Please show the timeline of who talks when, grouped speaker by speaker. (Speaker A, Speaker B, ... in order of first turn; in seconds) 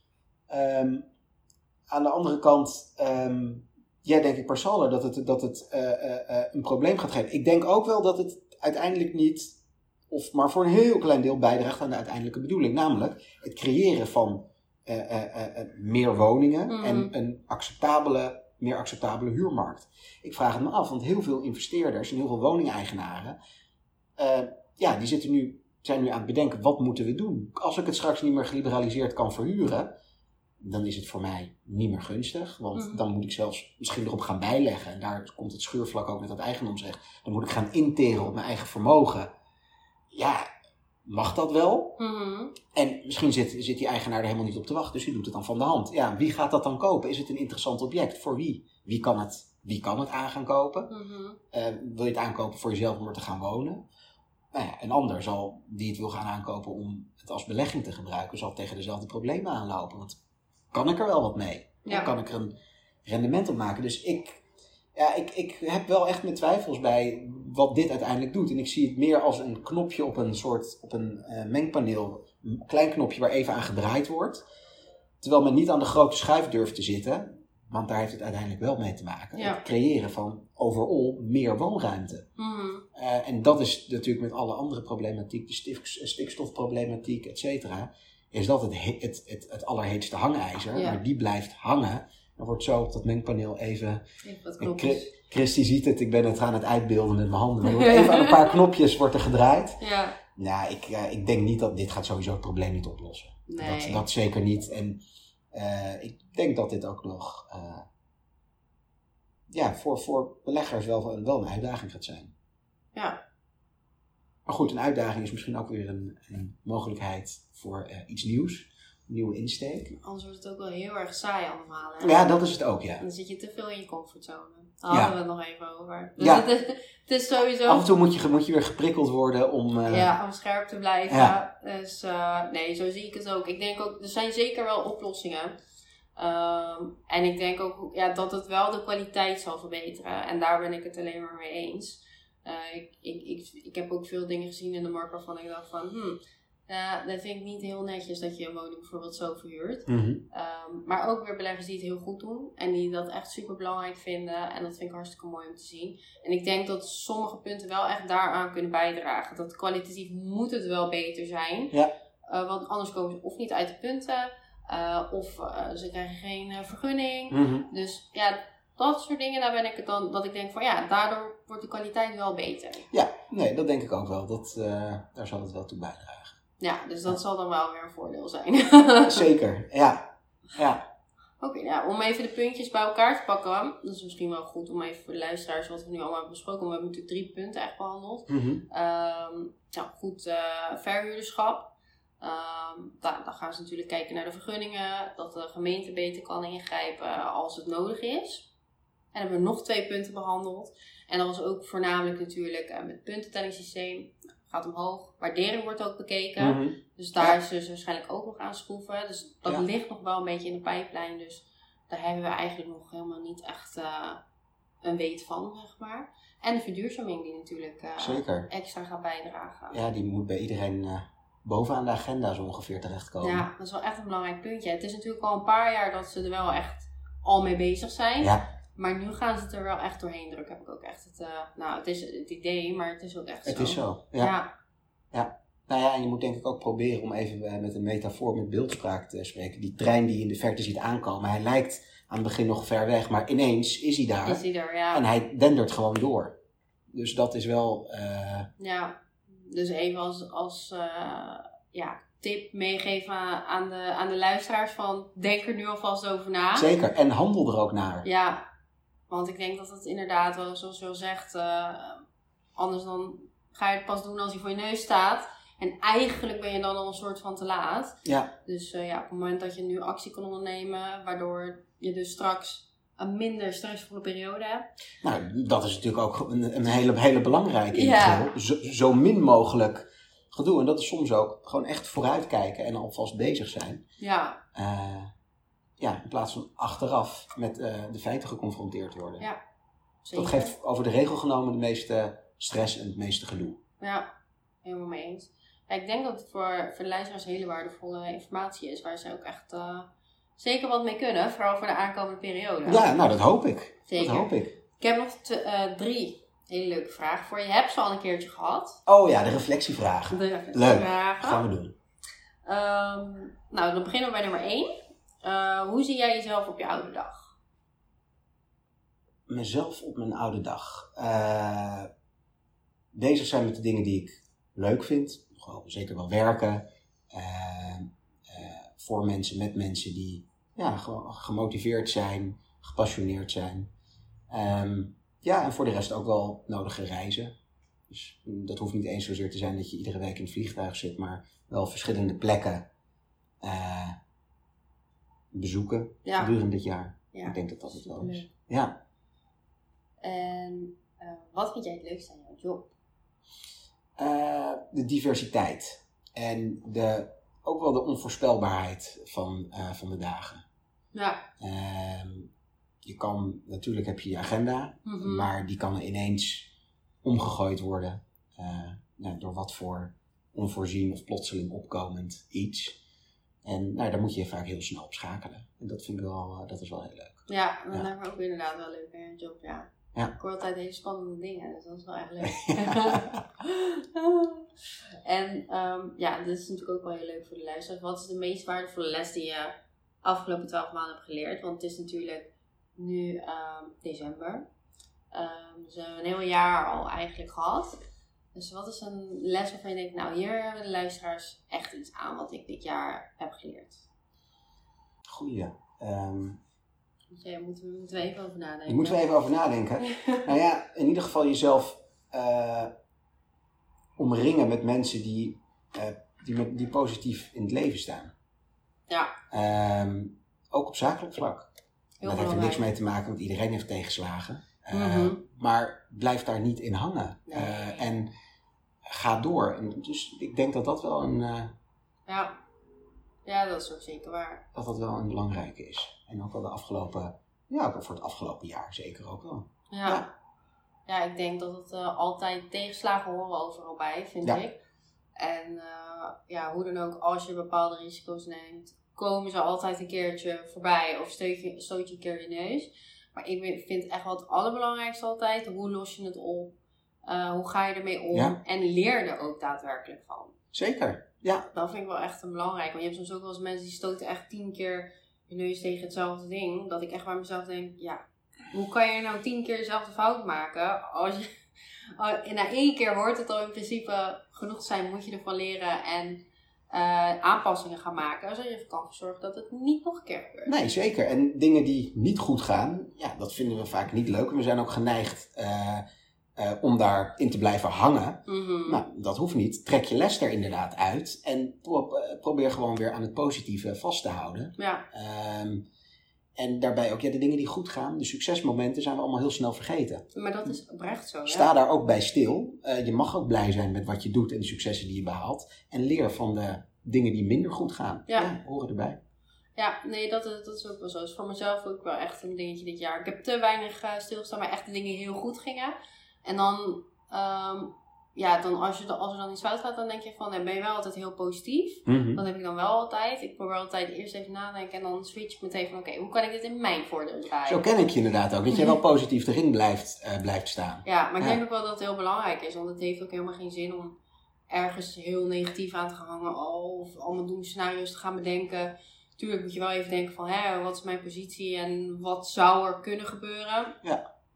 Speaker A: 0.5-1.1, 1.9-9.6, 10.1-23.4, 24.2-29.9, 30.6-39.3, 40.1-40.4, 41.0-42.0, 42.7-50.9, 51.5-53.8, 54.5-60.2, 60.7-62.5, 63.0-64.4, 65.0-74.4, 75.2-82.3, 82.9-94.0, 94.6-105.0, 105.5-107.9, 109.5-112.3, 114.5-120.0, 122.0-123.0, 126.2-126.5, 127.6-130.1, 131.1-131.3, 149.9-150.2, 167.3-167.7, 172.9-176.4, 179.1-180.8, 188.3-188.6, 206.4-207.4, 218.0-218.5, 219.7-223.5, 233.4-234.3, 235.1-246.4, 246.9-248.5, 256.5-258.1, 268.0-268.3, 275.0-283.8, 284.5-285.1, 285.8-289.3, 290.1-293.6, 302.6-304.6, 308.9-311.7, 319.3-321.9, 322.9-333.7, 334.3-337.4, 337.9-342.7, 343.4-344.0, 345.3-348.8, 354.0-360.4, 361.4-362.3, 362.8-366.5, 367.0-372.8, 373.4-377.9, 382.4-383.2, 405.1-406.4, 408.7-412.7, 414.0-418.1, 419.3-421.5, 422.0-428.1, 428.9-431.5, 434.5-440.1, 458.1-458.4, 460.5-461.5, 480.5-485.8, 486.4-495.6, 496.4-500.5, 501.2-509.0, 521.9-522.2, 527.4-531.4
Speaker B: 16.7-17.1, 32.7-33.0, 42.0-42.6, 50.9-51.4, 61.9-62.1, 79.3-79.6, 82.4-82.8, 90.7-91.0, 94.2-95.1, 97.6-98.6, 99.8-100.2, 103.5-104.0, 120.0-122.2, 123.0-127.9, 129.9-135.6, 136.2-161.7, 162.3-172.9, 176.6-179.3, 181.4-198.5, 199.1-214.2, 214.8-219.8, 223.2-234.5, 244.2-245.0, 248.6-256.7, 258.0-258.4, 259.1-262.0, 262.6-274.7, 277.7-278.3, 284.0-284.4, 290.0-290.5, 293.8-294.1, 294.6-302.9, 303.9-308.8, 310.1-311.4, 312.4-317.3, 346.0-346.3, 347.1-348.3, 350.0-352.7, 360.9-361.2, 364.8-365.3, 377.3-384.5, 385.0-394.5, 395.1-397.8, 398.3-403.8, 407.1-409.0, 409.8-410.3, 422.0-422.7, 424.7-425.2, 427.3-427.8, 432.1-432.3, 433.2-434.4, 439.7-440.0, 440.9-444.6, 445.2-460.3, 461.5-471.3, 471.9-480.5, 488.2-488.8, 494.6-494.8, 500.1-501.5, 509.6-527.6, 530.8-534.0, 534.5-543.8